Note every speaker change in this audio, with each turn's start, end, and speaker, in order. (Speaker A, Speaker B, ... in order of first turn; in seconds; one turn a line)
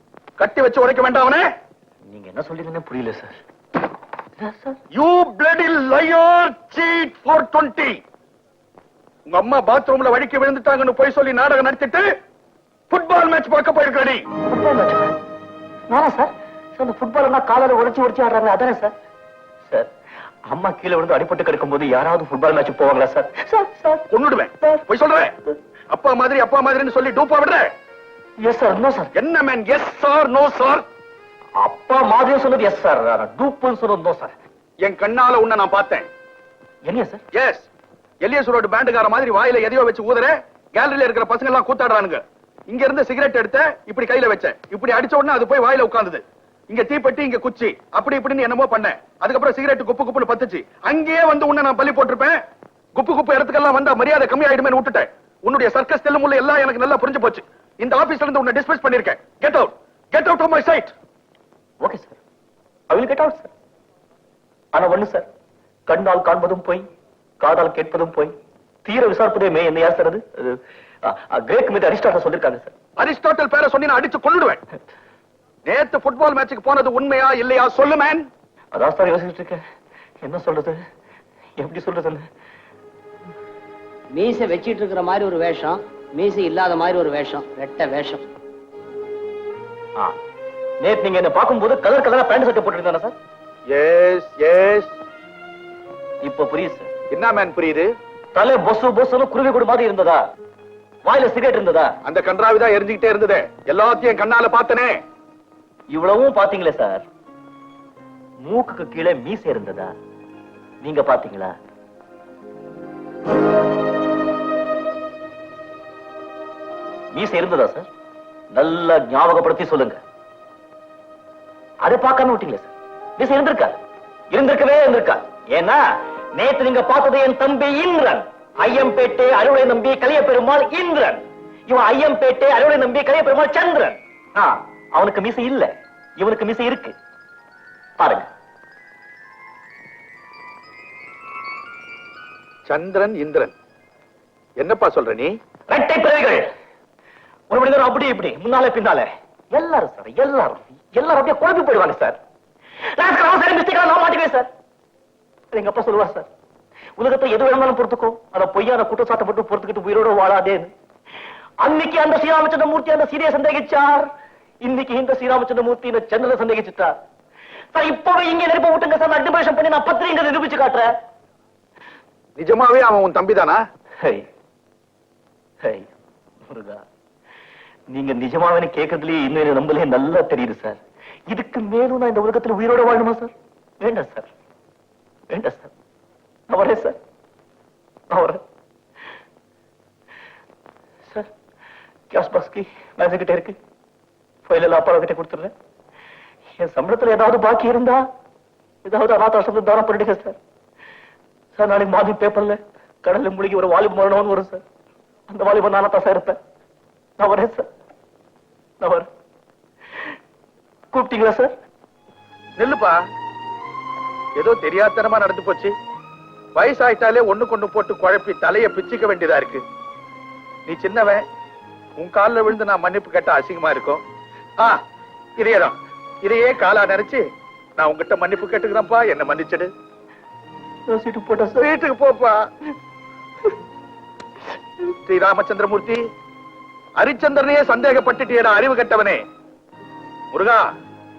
Speaker A: 0.4-1.4
Speaker B: 2.1-3.4
Speaker B: 4.4-4.8
Speaker A: 4.9-8.0
Speaker A: 9.2-12.0
Speaker A: 12.9-14.2
Speaker B: 14.5-15.1
Speaker B: 15.9-18.9
Speaker B: 20.5-24.0
Speaker A: 24.1-25.3
Speaker B: 24.6-24.8
Speaker A: 25.9-27.7
Speaker B: 28.4-29.1
Speaker A: 29.1-30.8
Speaker B: 31.6-34.3
Speaker A: 34.8-36.1
Speaker B: 36.9-37.2
Speaker A: 37.3-37.7
Speaker A: 38.2-52.4
Speaker A: 52.9-60.9
Speaker B: 61.8-62.2
Speaker B: 62.9-63.5
Speaker B: 64.7-65.3
Speaker B: 65.9-66.8
Speaker B: 67.4-68.3
Speaker B: 68.8-72.7
Speaker A: 73.0-74.6
Speaker A: 75.7-78.3
Speaker B: 78.7-79.6
Speaker B: 80.2-80.8
Speaker B: 81.6-82.3
Speaker C: 84.1-88.2
Speaker B: 90.8-93.1
Speaker A: 93.7-94.9
Speaker B: 96.2-96.9
Speaker A: 97.1-97.8
Speaker B: 98.3-100.2
Speaker B: 101.0-101.9
Speaker A: 102.0-105.0
Speaker B: 105.9-107.0
Speaker B: 108.4-109.9
Speaker B: 110.8-111.5
Speaker B: 117.1-117.9
Speaker B: 118.5-120.0
Speaker B: 121.8-123.8
Speaker B: 124.3-125.8
Speaker B: 126.3-136.9
Speaker B: 138.0-138.3
Speaker A: 142.7-143.5
Speaker A: 144.6-145.3
Speaker B: 145.7-146.5
Speaker B: 147.5-152.2
Speaker B: 152.9-154.5
Speaker B: 155.5-156.3
Speaker B: 157.0-160.7
Speaker B: 161.6-164.1
Speaker B: 164.6-166.9
Speaker B: 167.7-170.9
Speaker A: 172.3-173.6
Speaker B: 175.6-175.9
Speaker B: 176.4-176.8
Speaker B: 177.9-180.8
Speaker B: 181.3-184.3
Speaker B: 185.3-185.7
Speaker B: 186.5-187.0
Speaker B: 188.1-188.4
Speaker B: 192.1-193.6
Speaker B: 194.4-195.5
Speaker B: 196.6-198.1
Speaker B: 198.8-200.4
Speaker B: 201.5-204.6
Speaker B: 205.3-206.4
Speaker B: 207.2-207.7
Speaker B: 208.8-209.1
Speaker B: 210.9-211.5
Speaker A: 212.6-212.9
Speaker A: 214.4-215.7
Speaker A: 216.5-219.6
Speaker A: 220.7-221.2
Speaker A: 222.0-224.0
Speaker A: 225.4-227.2
Speaker A: 227.8-229.7
Speaker B: 230.9-231.7
Speaker A: 231.6-232.5
Speaker A: 235.1-236.0
Speaker A: 237.0-239.2
Speaker A: 240.3-240.6